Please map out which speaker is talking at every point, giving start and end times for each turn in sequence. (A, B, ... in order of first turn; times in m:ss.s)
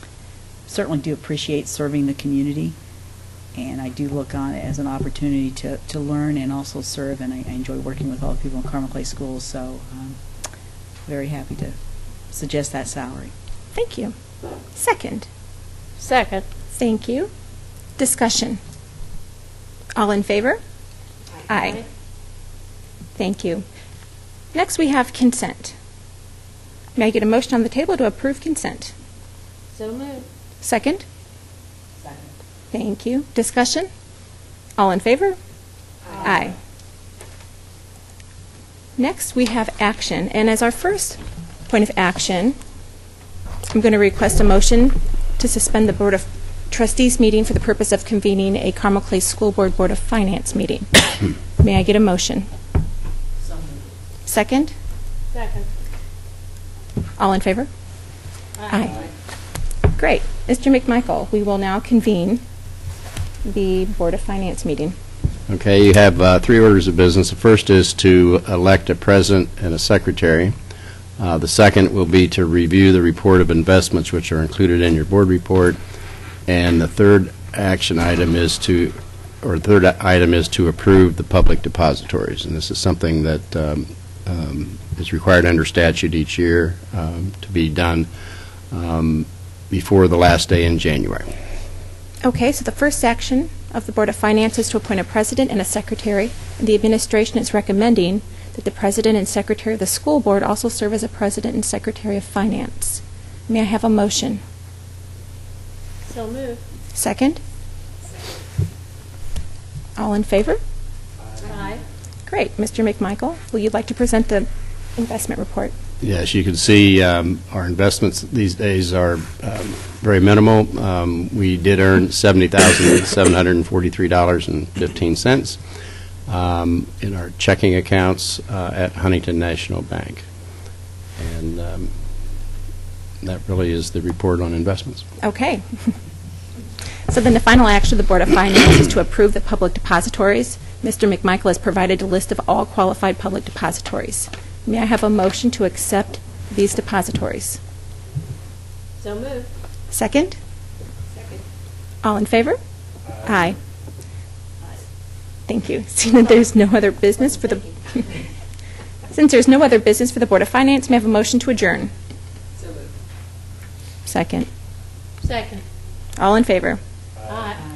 0:00.7-0:02.8 A
0:03.6-0:10.2 A
0:11.1-0:11.8 A
0:12.3-0:13.3 A
0:13.7-0:14.2 B
0:14.7-0:15.3 B
0:16.0-0:16.4 C
0:16.7-0:17.3 B
0:18.0-0:18.6 B
0:20.0-0:20.6 B
0:21.5-0:21.8 B
0:23.2-0:23.6 B
0:24.5-0:25.8 B
0:27.0-0:28.9 B
0:29.7-0:30.3 C
0:30.6-0:31.0 B
0:32.7-0:33.9 B
0:34.8-0:35.4 B
0:36.2-0:36.6 B
0:39.0-0:42.6 B
0:43.7-0:52.5 B
0:54.3-0:54.7 B
0:55.3-0:55.7 C
0:57.2-0:57.7 B
0:58.6-0:58.9 C
0:58.7-0:59.1 B
1:00.0-1:02.4 B
1:03.4-1:05.0 B
1:05.5-1:10.5 D
1:11.2-1:15.8 D
1:16.5-1:28.1 D
1:28.7-1:31.3 D
1:32.2-1:44.4 B
1:46.1-1:46.6 C
1:47.0-1:47.4 B
1:50.0-1:50.6 B
1:51.5-1:51.8 C
1:52.3-1:55.7 B
1:56.0-2:05.6 D
2:06.3-2:10.2 D
2:11.2-2:11.9 D
2:13.2-2:15.1 D
2:15.2-2:15.9 B
2:17.1-2:27.6 B
2:29.0-2:29.5 C
2:29.9-2:30.4 B
2:32.0-2:32.6 B
2:33.2-2:33.6 B
2:35.5-2:38.1 B
2:39.1-2:41.9 B
2:44.1-2:44.5 B
2:45.2-2:45.6 C
2:46.2-2:46.8 B
2:47.3-2:47.6 C